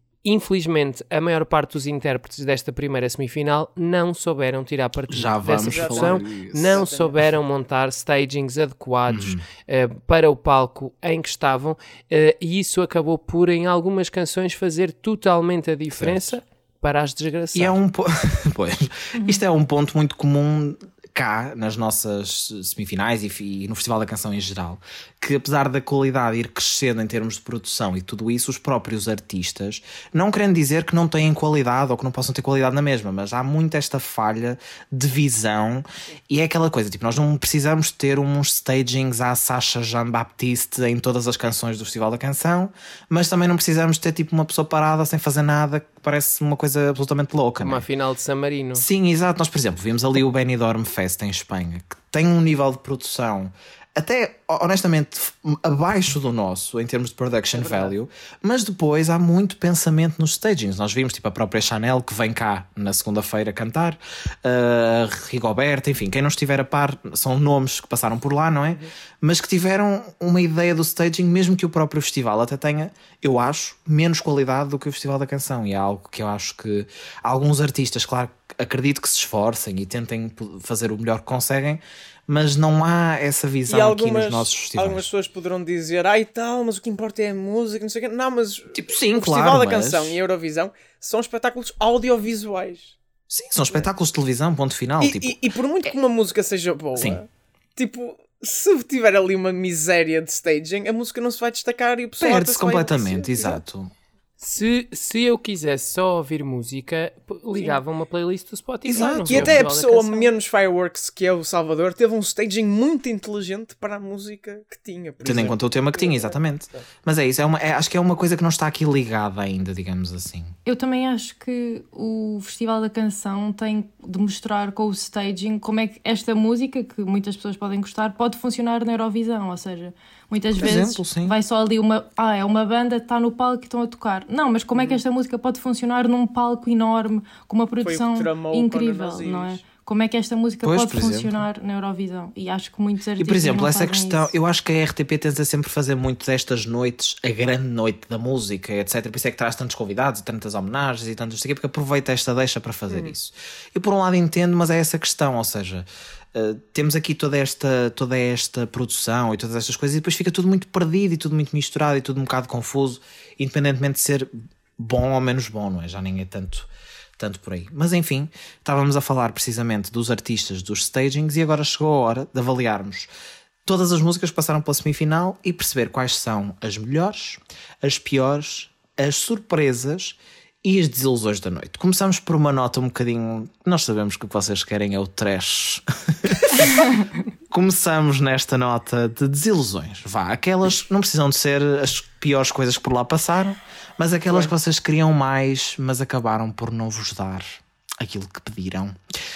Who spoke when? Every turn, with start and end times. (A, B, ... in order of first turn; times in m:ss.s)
0:00.2-0:17.8 A
0:05.1-0:06.9 B
0:05.6-0:07.2 C
0:09.1-0:09.4 B
0:16.0-0:16.4 B
0:17.5-0:47.8 B
0:47.6-0:48.9 A
0:48.8-1:25.1 B
0:57.5-0:57.9 A
1:23.7-1:33.0 C
1:28.7-1:30.2 B
1:33.3-1:35.4 B
1:35.0-1:43.6 C
1:37.0-1:37.2 B
1:42.2-1:43.9 B
1:44.4-1:50.3 A
1:47.5-1:47.8 C
1:48.8-1:49.6 B
1:48.9-1:56.8 C
1:55.2-2:00.5 B
2:00.6-2:24.3 D
2:10.6-2:11.4 B
2:17.8-2:19.6 C
2:20.6-2:21.4 B
2:23.2-2:53.1 B
2:32.9-2:33.1 C
2:53.6-3:06.8 B
3:07.5-3:19.0 B